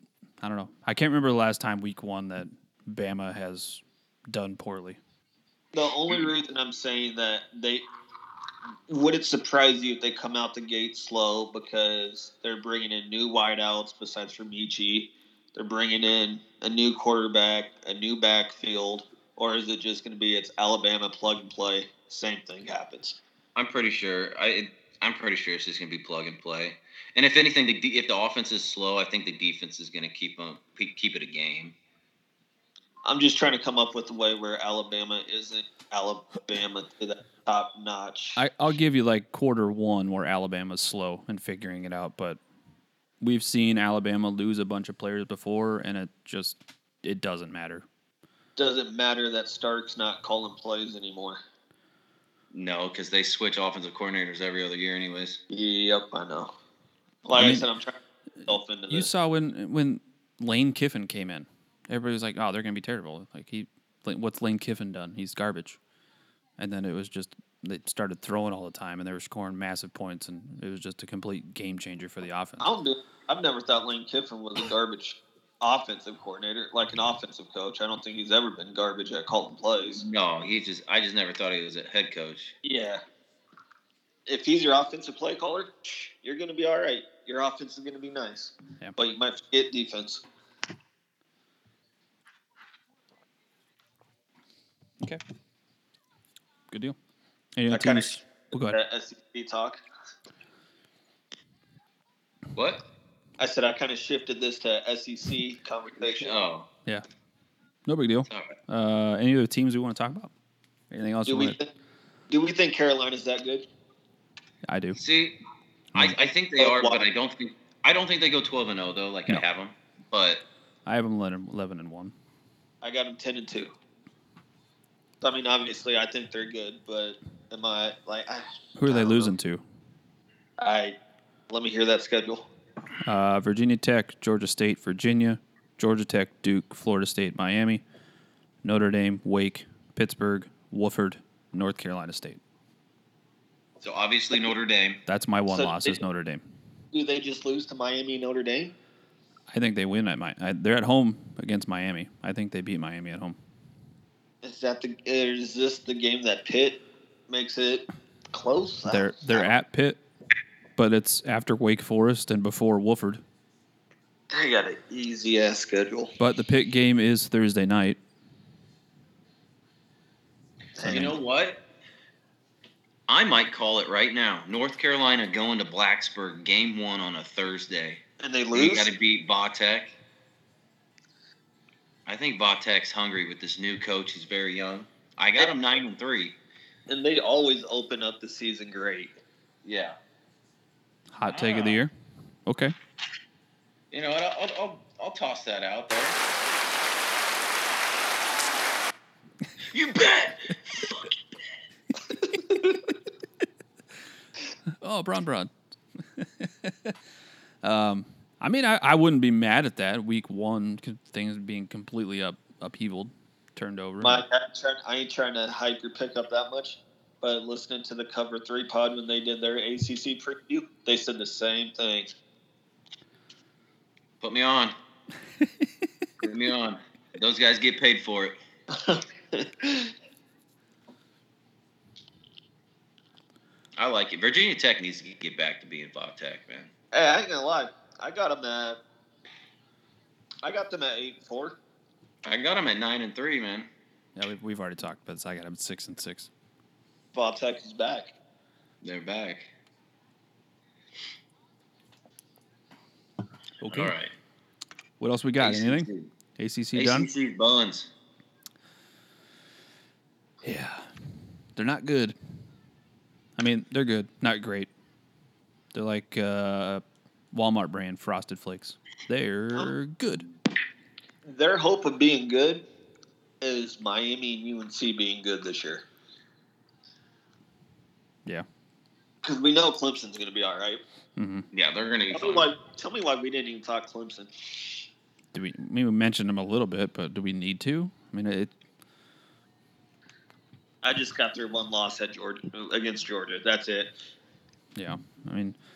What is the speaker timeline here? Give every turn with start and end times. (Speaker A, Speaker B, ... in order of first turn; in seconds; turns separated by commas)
Speaker A: 0.4-5.0, Speaker B: 5.7-7.8, Speaker B: 8.9-23.2, Speaker C: 23.5-31.8, Speaker B: 33.0-38.4, Speaker A: 38.4-42.4, Speaker A: 43.2-47.9, Speaker B: 48.6-51.4, Speaker C: 52.5-55.4, Speaker B: 55.5-56.5, Speaker B: 57.2-59.1, Speaker A: 57.4-57.7, Speaker A: 58.4-65.8, Speaker A: 66.6-72.7, Speaker B: 72.6-80.0, Speaker C: 80.0-82.5, Speaker B: 82.6-83.0, Speaker B: 84.3-90.2, Speaker A: 96.7-97.0, Speaker A: 97.5-98.8, Speaker B: 97.7-99.8, Speaker C: 102.5-102.8, Speaker B: 103.4-106.3, Speaker C: 106.1-106.7, Speaker A: 107.8-110.3, Speaker C: 108.3-108.5, Speaker A: 110.9-111.6, Speaker B: 111.3-111.7, Speaker B: 112.3-113.7, Speaker A: 114.7-115.0, Speaker C: 114.9-115.4, Speaker C: 115.9-120.4, Speaker B: 116.6-117.0, Speaker A: 120.8-122.1, Speaker B: 122.8-123.7, Speaker B: 125.2-129.3, Speaker A: 128.8-129.6, Speaker B: 130.6-130.9, Speaker B: 131.5-132.5, Speaker A: 133.0-137.8, Speaker A: 138.6-142.4, Speaker C: 143.8-145.0, Speaker A: 145.1-146.4, Speaker B: 145.5-146.0, Speaker B: 146.9-148.7, Speaker A: 149.5-153.4, Speaker B: 154.4-159.5, Speaker A: 158.9-160.0, Speaker A: 160.8-163.2, Speaker B: 164.3-166.1, Speaker A: 166.2-168.0, Speaker B: 170.8-171.2, Speaker A: 170.8-171.1, Speaker C: 170.8-171.6, Speaker C: 173.1-180.0, Speaker B: 178.2-178.9, Speaker C: 182.1-186.3, Speaker B: 186.9-189.1, Speaker C: 189.6-190.0, Speaker A: 191.1-191.9, Speaker C: 191.3-191.8, Speaker A: 192.4-192.7, Speaker C: 193.9-196.2, Speaker C: 199.7-201.2, Speaker A: 204.8-205.5, Speaker A: 206.2-206.9, Speaker A: 207.6-214.2, Speaker B: 214.0-222.1, Speaker C: 224.2-224.7, Speaker C: 226.2-228.3, Speaker B: 228.7-229.9, Speaker C: 233.8-236.7, Speaker B: 236.9-238.8, Speaker B: 240.4-241.6, Speaker C: 242.2-243.7, Speaker A: 244.2-246.3, Speaker B: 247.1-248.1, Speaker C: 248.8-249.5, Speaker A: 253.6-253.9, Speaker C: 253.7-254.1, Speaker A: 255.0-257.1, Speaker C: 255.4-256.1, Speaker C: 256.7-257.9, Speaker A: 260.4-260.9, Speaker A: 261.6-262.1, Speaker A: 263.4-264.7, Speaker A: 265.7-270.2, Speaker B: 271.2-272.6, Speaker B: 273.4-275.8, Speaker B: 279.2-280.8, Speaker A: 281.1-281.4, Speaker C: 281.5-282.5, Speaker B: 282.1-284.8, Speaker A: 285.3-288.5, Speaker B: 290.8-293.9, Speaker A: 294.7-295.5